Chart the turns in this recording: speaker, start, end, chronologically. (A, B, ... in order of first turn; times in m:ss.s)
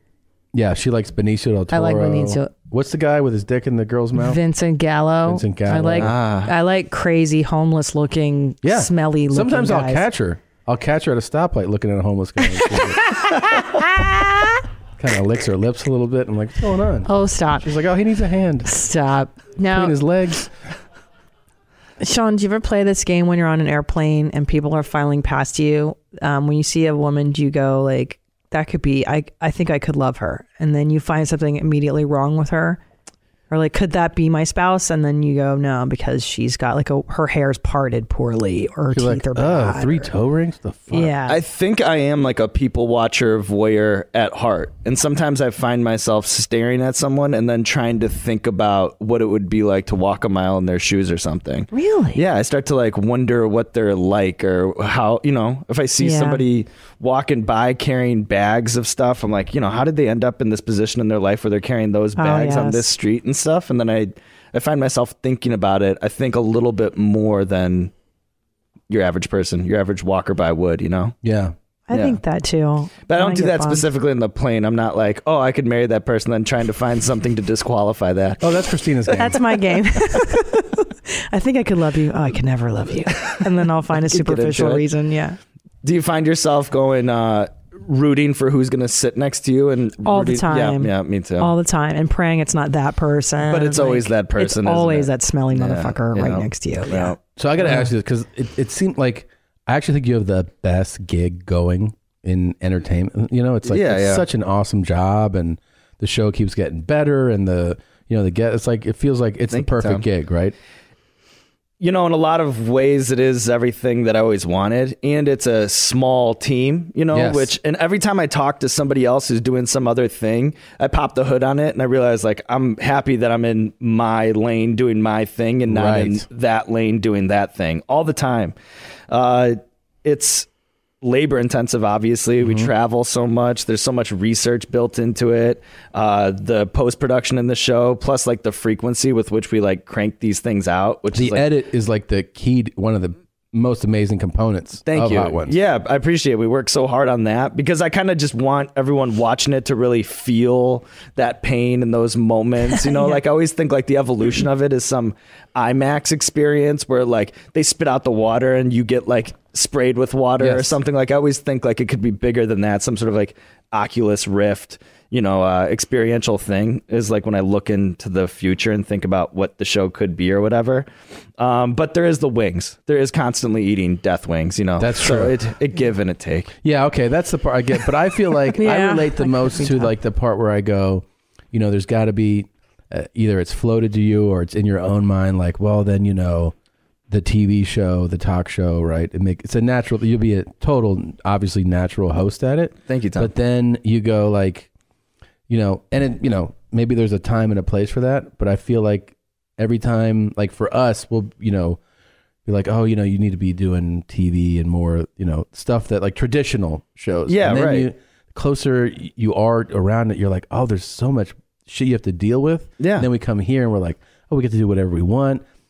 0:00.5-0:04.4 A
0:01.7-0:02.5 B
0:04.1-0:10.0 B
0:05.2-0:06.1 A
0:06.0-0:06.5 C
0:08.6-0:13.1 A
0:15.0-0:18.7 A
0:17.0-0:17.7 B
0:18.6-0:19.9 B
0:19.7-0:20.5 A
0:22.0-0:32.8 B
0:33.5-0:40.1 B
0:38.9-0:41.1 A
0:40.9-0:41.4 B
0:41.3-1:07.9 C
0:51.7-0:52.2 B
0:56.0-0:56.4 B
1:02.2-1:02.9 B
1:08.9-1:11.1 C
1:11.2-1:11.5 A
1:11.9-1:13.9 B
1:11.9-1:12.2 C
1:13.0-1:18.4 C
1:18.4-1:19.4 A
1:19.1-1:25.4 B
1:24.1-1:24.8 C
1:25.8-1:31.5 C
1:30.0-1:37.8 B
1:33.5-1:37.2 C
1:37.3-1:50.5 A
1:43.6-1:44.2 C
1:49.5-1:50.0 C
1:51.8-2:08.5 C
1:57.1-1:57.5 A
2:05.7-2:06.2 A
2:09.1-2:10.5 C
2:11.0-2:21.5 C
2:12.4-2:12.7 A
2:21.1-2:25.6 A
2:24.8-2:50.9 C
2:32.8-2:33.2 B
2:40.4-2:40.8 A
2:51.4-2:56.5 C
2:54.8-2:55.4 A
2:56.6-3:06.5 A
2:58.5-2:59.9 B
3:07.1-3:14.7 A
3:12.9-3:13.3 C
3:15.5-3:21.8 A
3:22.4-3:35.4 A
3:27.3-3:27.9 C
3:32.8-3:33.1 C